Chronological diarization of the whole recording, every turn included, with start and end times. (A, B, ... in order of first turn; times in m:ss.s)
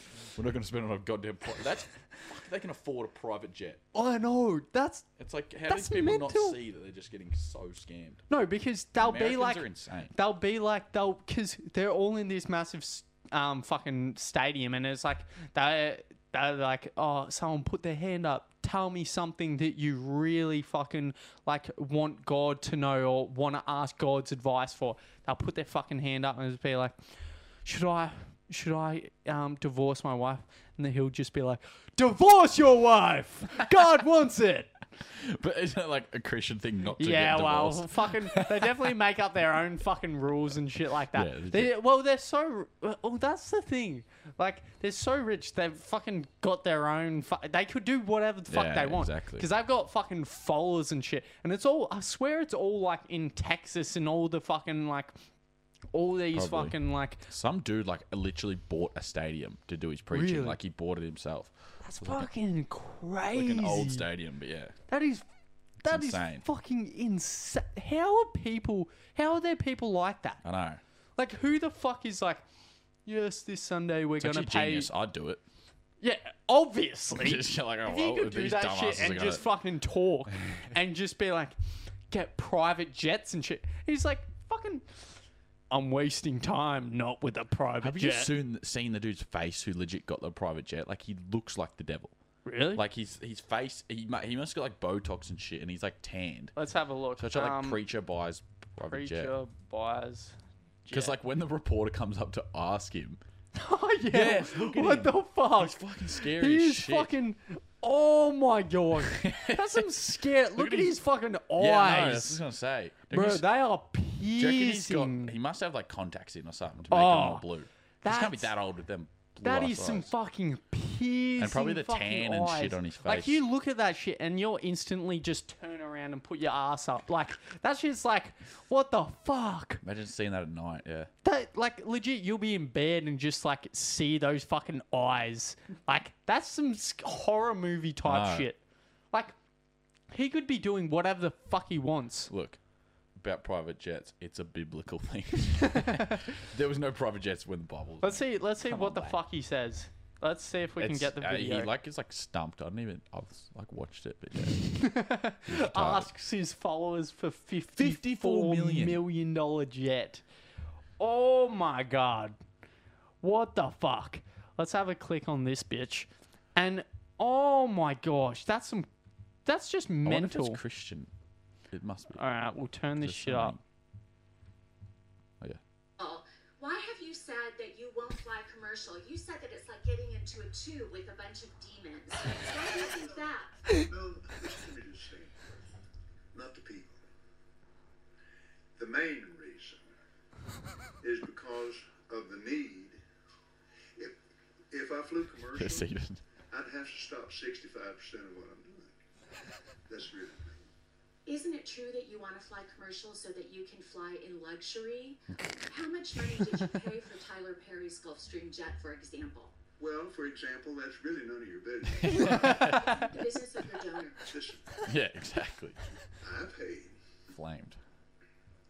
0:00.3-0:03.8 A
0:03.9-0:05.0 B
0:05.2-0:08.2 A
0:05.7-0:06.6 B
0:08.3-0:27.0 B
0:09.0-0:10.1 A
0:27.6-0:34.7 B
0:35.1-0:38.6 A
0:37.0-0:55.2 B
0:41.1-0:41.7 A
0:48.5-0:49.5 A
0:55.9-0:57.2 B
0:56.3-1:02.3 A
1:00.1-1:00.6 B
1:01.8-1:04.0 B
1:03.3-1:04.7 A
1:04.9-1:05.2 B
1:05.8-1:10.4 B
1:05.9-1:06.4 A
1:10.4-1:10.8 A
1:11.2-1:12.4 B
1:13.0-1:14.9 B
1:14.2-1:15.4 A
1:16.0-1:21.6 B
1:17.1-1:19.5 A
1:22.1-1:24.8 B
1:25.7-1:28.3 B
1:27.8-1:32.1 A
1:32.4-1:32.8 B
1:32.7-1:36.5 A
1:36.6-1:37.8 B
1:37.2-1:39.3 A
1:38.9-1:40.3 B
1:40.8-1:41.2 B
1:40.9-1:43.2 A
1:43.6-1:52.4 B
1:44.1-1:47.1 A
1:49.1-1:49.8 A
1:50.6-1:51.0 A
1:51.6-1:53.4 A
1:53.1-1:55.3 B
1:54.4-2:00.1 A
1:56.9-1:57.4 B
1:58.0-1:58.5 B
1:59.4-2:09.8 B
2:01.4-2:03.4 A
2:09.8-2:11.1 A
2:11.2-2:18.6 B
2:18.0-2:18.5 A
2:20.1-2:22.3 B
2:22.3-2:22.6 A
2:23.2-2:29.2 A
2:25.8-2:26.1 B
2:28.0-2:31.7 B
2:30.8-2:34.9 A
2:34.7-2:40.2 B
2:35.5-2:36.1 A
2:37.8-2:39.0 A
2:41.0-2:42.4 B
2:43.2-2:48.9 B
2:49.4-2:50.6 B
2:50.0-2:51.1 A
2:51.7-2:52.2 A
2:52.1-2:53.5 B
2:53.0-2:53.6 A
2:56.0-3:03.6 C
3:03.8-3:05.5 D
3:06.3-3:07.0 D
3:08.8-3:09.9 D
3:11.0-3:13.0 D
3:14.7-3:15.9 D
3:15.5-3:16.2 A
3:16.5-3:18.9 D
3:19.9-3:20.6 D
3:21.2-3:29.5 C
3:29.8-3:33.2 D
3:32.0-3:32.8 A
3:32.1-3:33.0 B
3:32.6-3:34.3 C
3:34.2-3:34.9 D
3:34.9-3:35.8 A
3:36.2-3:37.0 D
3:37.3-3:37.8 A